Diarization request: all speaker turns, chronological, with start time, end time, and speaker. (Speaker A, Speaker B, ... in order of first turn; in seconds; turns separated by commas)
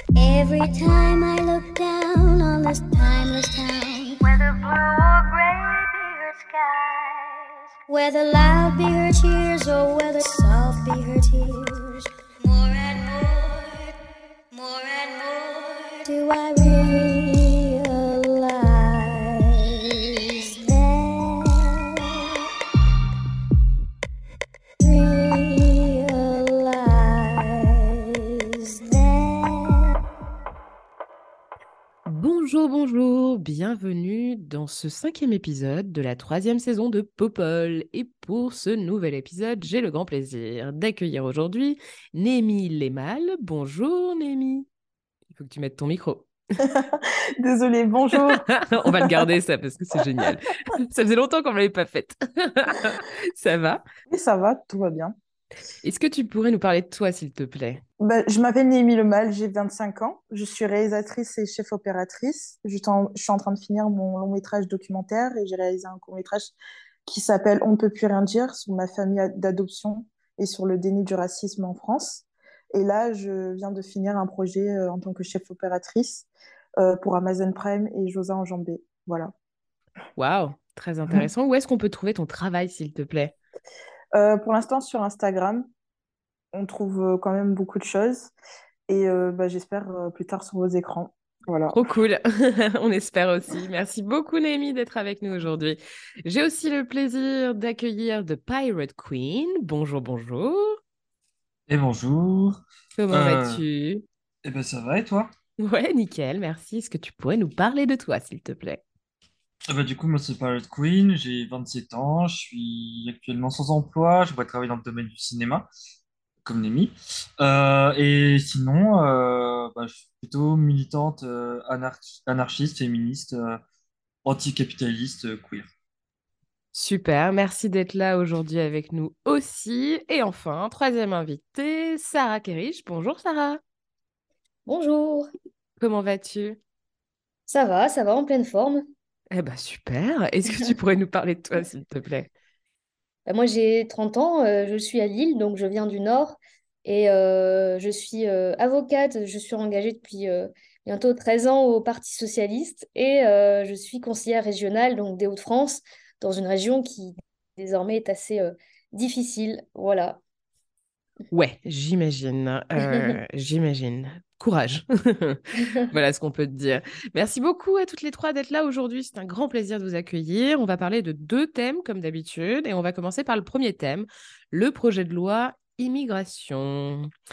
Speaker A: 0.1-7.3, Speaker A: 7.9-13.9, Speaker A: 14.5-22.1, Speaker A: 24.8-29.9, Speaker B: 32.0-44.6, Speaker B: 45.3-46.3, Speaker C: 46.6-49.3, Speaker B: 48.1-53.8, Speaker C: 54.1-55.1, Speaker B: 55.8-57.8, Speaker C: 58.0-66.5, Speaker C: 67.0-79.3, Speaker B: 80.2-83.3, Speaker C: 84.1-85.7, Speaker C: 86.5-88.3, Speaker C: 88.9-91.8, Speaker B: 91.7-100.8, Speaker D: 101.7-102.6, Speaker B: 103.0-104.0, Speaker D: 103.1-103.6, Speaker D: 104.4-105.3, Speaker B: 105.6-108.8, Speaker D: 109.7-115.7, Speaker D: 116.4-123.6, Speaker D: 124.2-125.7, Speaker B: 126.7-133.6, Speaker E: 134.7-135.3, Speaker B: 135.8-136.6, Speaker E: 137.5-138.8, Speaker B: 139.3-142.3, Speaker E: 143.3-160.2, Speaker B: 161.3-177.1